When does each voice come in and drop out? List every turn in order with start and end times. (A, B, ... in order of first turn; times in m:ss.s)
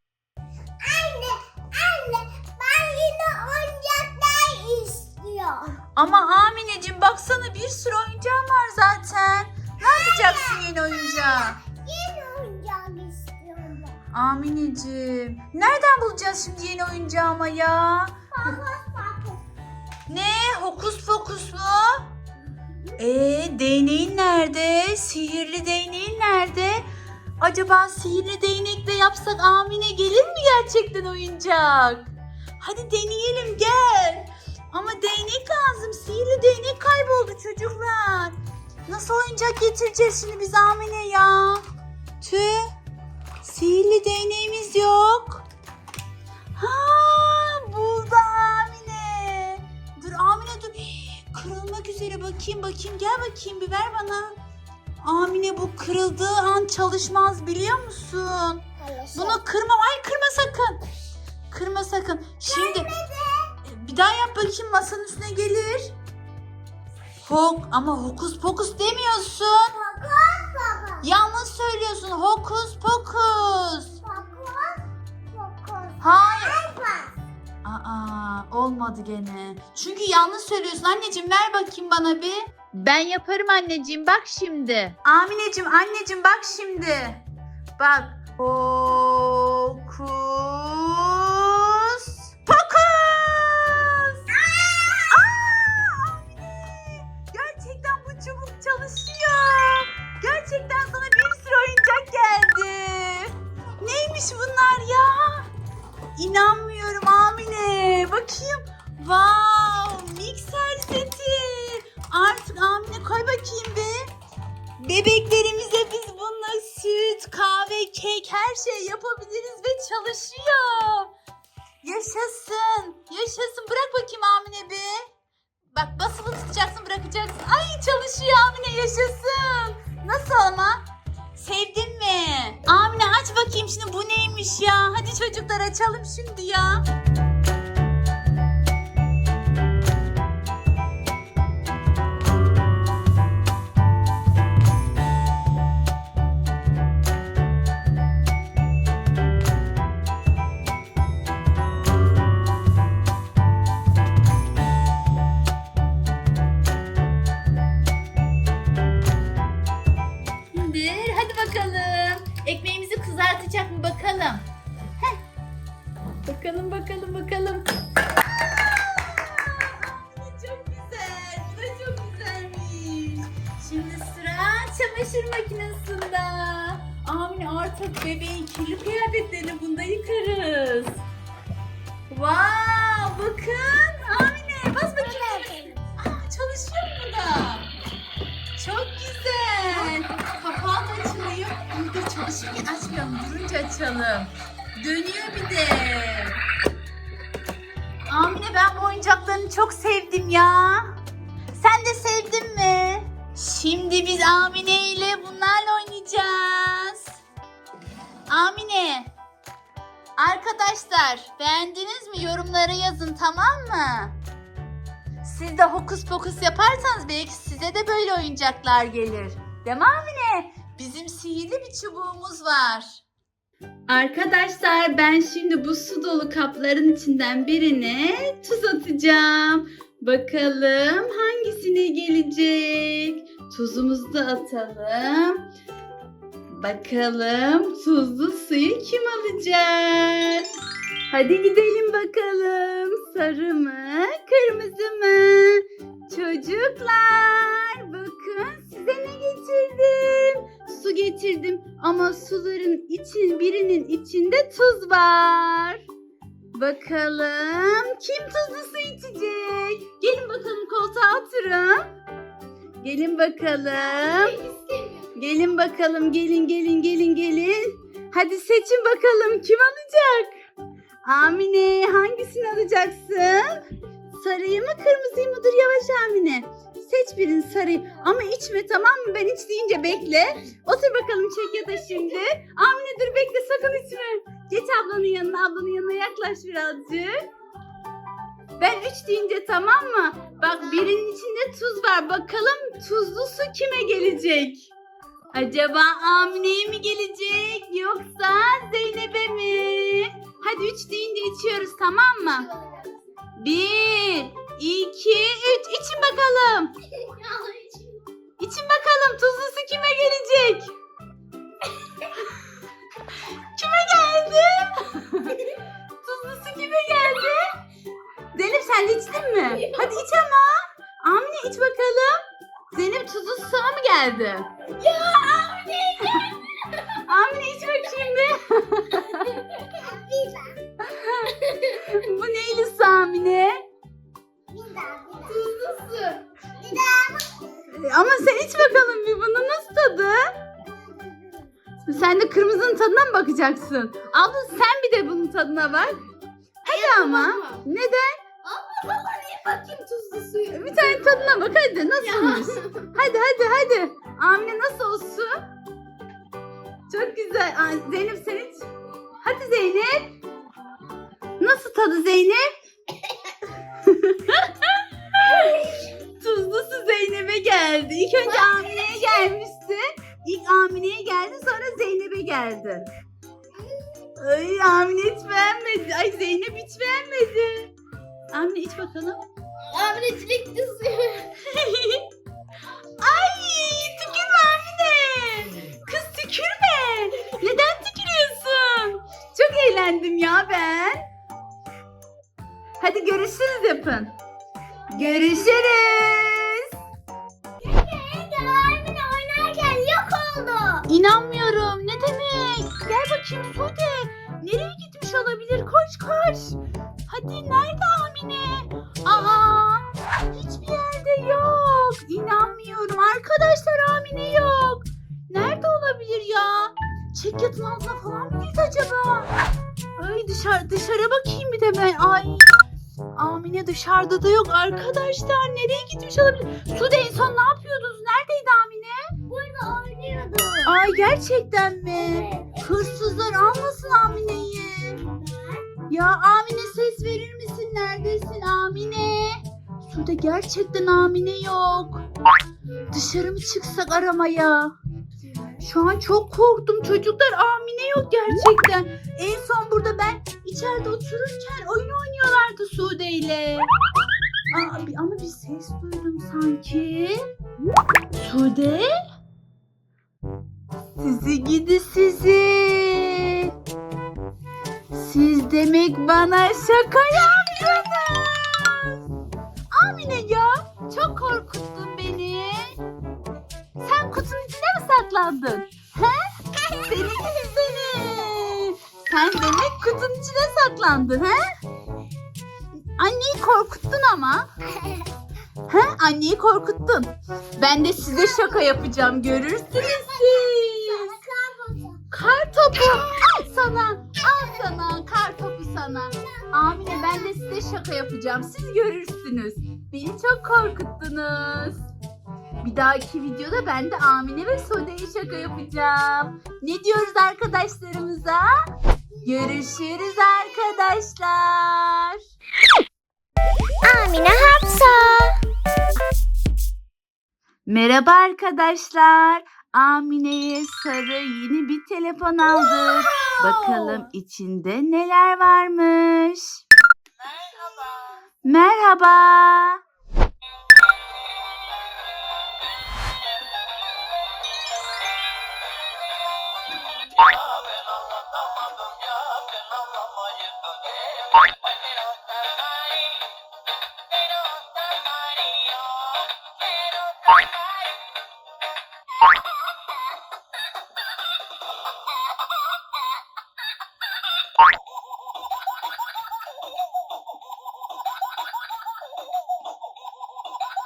0:00.8-0:05.8 A
0:06.0-0:11.6 B
0:09.8-0:14.0 A
0:14.1-0:18.2 B
0:18.3-0:19.4 A
0:20.1-0:22.1 B
0:23.0-0:26.9 B
0:27.4-0:41.6 B
0:42.2-0:42.7 B
0:43.4-0:45.4 B
0:46.6-0:54.4 B
0:55.0-1:00.8 B
0:58.8-0:59.4 A
1:01.5-1:02.9 B
1:02.4-1:03.5 A
1:03.6-1:05.9 B
1:07.2-1:09.7 B
1:09.8-1:11.1 A
1:11.0-1:14.0 B
1:14.0-1:17.2 A
1:16.0-1:16.6 B
1:17.6-1:27.2 B
1:27.8-1:34.2 B
1:34.4-1:35.0 A
1:35.0-1:45.5 B
1:46.2-1:54.1 B
1:54.8-2:01.1 B
2:01.8-2:05.1 B
2:05.7-2:16.8 B
2:40.5-2:44.5 B
2:46.2-3:01.0 B
3:02.1-3:07.7 B
3:05.0-3:05.8 A
3:08.6-3:16.4 B
3:18.1-3:21.0 B
3:21.6-3:27.1 B
3:28.3-3:29.1 B
3:30.2-3:34.2 B
3:35.2-3:43.0 B
3:43.9-3:55.4 B
3:56.5-4:00.5 B
4:01.1-4:15.8 B
4:16.5-4:21.9 B
4:22.8-4:24.4 B
4:24.3-4:25.1 C
4:25.1-4:30.3 B
4:31.0-4:47.2 B
4:48.6-4:54.7 B
4:55.3-5:02.5 B
5:03.4-5:06.7 B
5:07.2-5:07.7 C
5:08.4-5:10.7 B
5:13.5-5:15.5 B
5:16.0-5:17.5 B
5:18.3-5:25.2 B
5:24.8-5:26.8 C
5:26.9-5:29.4 B
5:29.4-5:29.6 C
5:29.7-5:30.6 A
5:30.8-5:33.6 B
5:34.5-5:35.4 A
5:35.3-5:36.2 C
5:36.6-5:37.4 A
5:37.7-5:40.3 B
5:40.7-5:41.5 A
5:41.9-5:46.0 B
5:46.6-5:48.2 B
5:46.7-5:47.6 C
5:48.4-5:51.4 C
5:50.5-5:55.4 B
5:52.0-5:52.9 C
5:56.9-5:58.7 B
5:59.2-6:00.2 B
6:01.4-6:02.5 B
6:03.7-6:12.9 B
6:08.3-6:09.3 A
6:14.2-6:17.7 B
6:18.3-6:19.2 B
6:19.7-6:21.3 C
6:21.4-6:22.1 B
6:23.0-6:31.1 B
6:32.8-6:34.2 B
6:34.9-6:36.7 B
6:34.9-6:36.0 A
6:37.6-6:40.9 A
6:40.9-6:59.3 B
7:00.0-7:02.6 B
7:03.2-7:09.1 B
7:09.3-7:10.7 A
7:10.6-7:15.0 B
7:11.9-7:13.2 A
7:15.0-7:15.6 A
7:15.9-7:22.1 B
7:22.9-7:24.7 B
7:25.6-7:33.7 B
7:34.5-7:37.2 B
7:38.2-7:38.9 B
7:41.0-7:43.5 B
7:44.9-7:49.0 B
7:49.7-7:52.8 B
7:53.8-7:56.3 B
7:56.8-8:01.4 B
8:03.0-8:04.5 B
8:04.8-8:05.1 A
8:05.7-8:11.1 B
8:08.2-8:08.4 A
8:09.7-8:12.0 A
8:12.1-8:21.9 B
8:16.3-8:17.3 A
8:22.6-8:28.5 B
8:29.2-8:32.2 B
8:33.8-8:35.4 A
8:37.7-8:46.6 B
8:48.4-8:49.8 B